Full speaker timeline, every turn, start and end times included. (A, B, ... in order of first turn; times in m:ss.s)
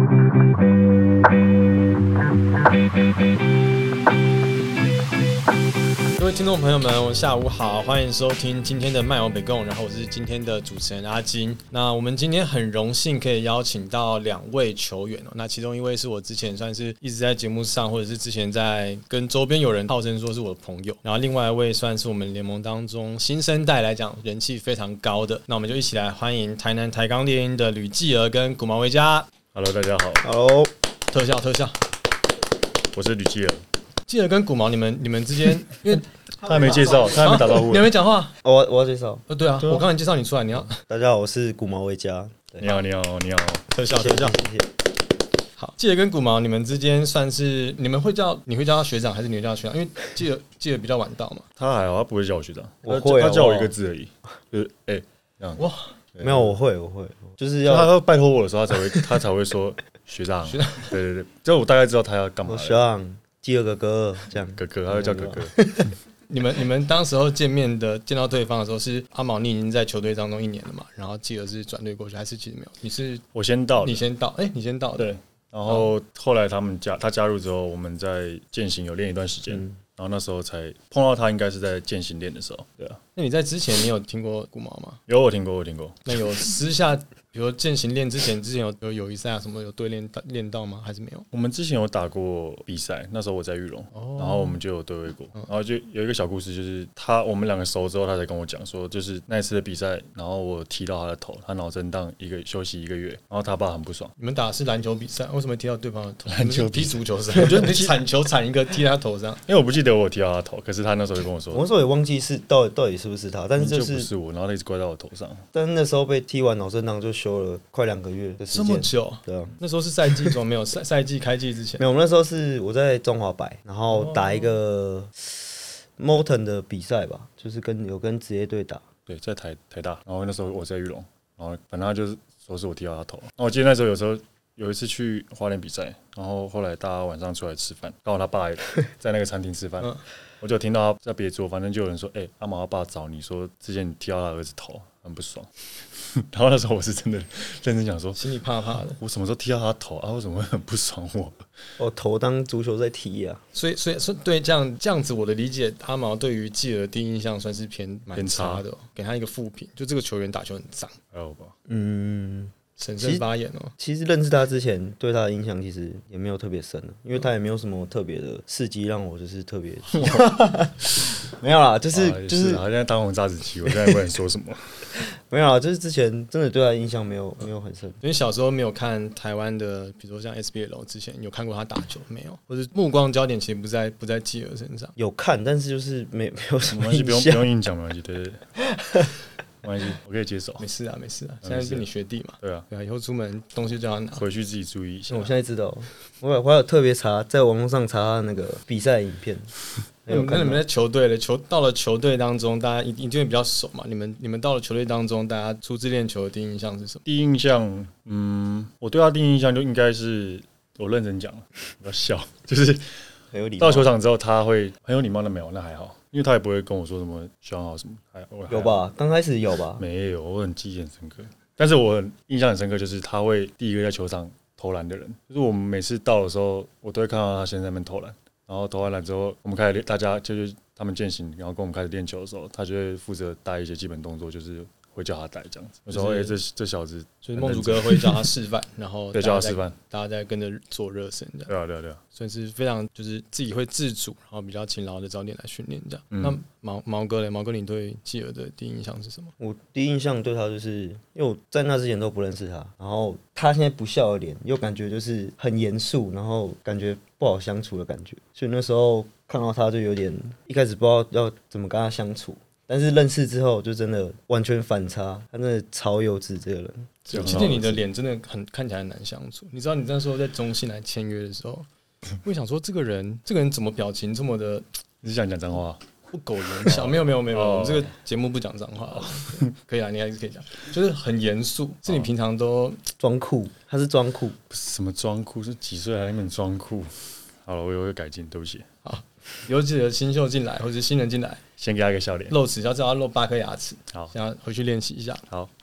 0:06.2-0:29.3 A
0:29.5-0:30.2 B
0:30.2-0:30.7 C
0:31.1-0:31.8 A
0:32.9-0:33.6 B
0:34.1-0:38.3 A
0:35.9-0:37.9 B
0:38.4-0:39.2 C
0:39.3-0:40.8 A
0:39.6-0:39.9 B
0:40.8-0:42.8 C
0:42.6-0:43.7 B
0:43.7-0:44.4 A
0:43.9-0:44.7 C
0:45.6-0:51.4 A
0:51.6-0:55.6 B
0:52.8-0:53.7 C
0:55.6-0:55.9 A
0:56.1-0:56.6 B
0:56.2-0:57.9 C
0:57.6-1:02.8 B
1:00.5-1:01.0 A
1:02.4-1:05.9 C
1:04.5-1:05.5 B
1:06.3-1:13.2 A
1:13.3-1:14.0 B
1:13.8-1:15.1 A
1:15.0-1:23.0 B
1:23.2-1:25.0 A
1:25.1-1:26.2 B
1:26.1-1:31.3 A
1:31.3-1:44.1 B
1:33.9-1:34.6 A
1:44.2-1:49.4 A
1:46.2-1:48.0 B
1:49.5-1:51.6 B
1:51.5-1:54.1 C
1:53.6-1:55.4 B
1:55.5-1:59.5 C
1:58.5-2:01.8 A
2:01.8-2:08.8 C
2:03.9-2:04.6 A
2:09.1-2:28.2 B
2:28.2-2:29.0 A
2:28.9-2:31.4 B
2:31.8-2:33.4 C
2:33.5-2:41.0 A
2:38.1-2:38.6 B
2:41.1-2:41.5 B
2:41.7-2:43.2 C
2:42.8-2:43.7 A
2:43.8-2:52.6 C
2:49.9-2:50.2 B
2:51.9-2:54.9 B
2:55.2-2:58.0 C
2:58.0-3:04.9 A
3:05.0-3:07.5 C
3:06.7-3:08.4 B
3:08.8-3:09.1 C
3:09.6-3:10.7 B
3:10.6-3:14.2 A
3:11.4-3:11.9 B
3:12.4-3:12.6 B
3:14.1-3:15.3 B
3:15.1-3:19.5 C
3:20.0-3:20.6 C
3:20.1-3:27.0 A
3:27.0-3:32.9 B
3:33.3-3:33.9 C
3:33.6-3:38.8 B
3:38.5-3:39.8 C
3:39.8-3:58.3 B
3:55.9-3:56.4 A
3:57.2-4:01.5 A
3:59.1-3:59.8 B
4:01.5-4:02.0 B
4:02.1-4:09.3 A
4:06.1-4:06.4 B
4:09.4-4:27.5 C
4:27.1-4:31.7 A
4:27.1-4:27.8 B
4:32.2-4:34.6 A
4:35.0-4:35.8 B
4:36.1-4:42.8 A
4:36.6-4:37.9 B
4:38.9-4:39.5 B
4:43.0-4:44.4 C
4:44.5-4:48.7 B
4:48.8-4:51.4 A
4:51.6-4:52.4 B
4:52.3-4:55.2 A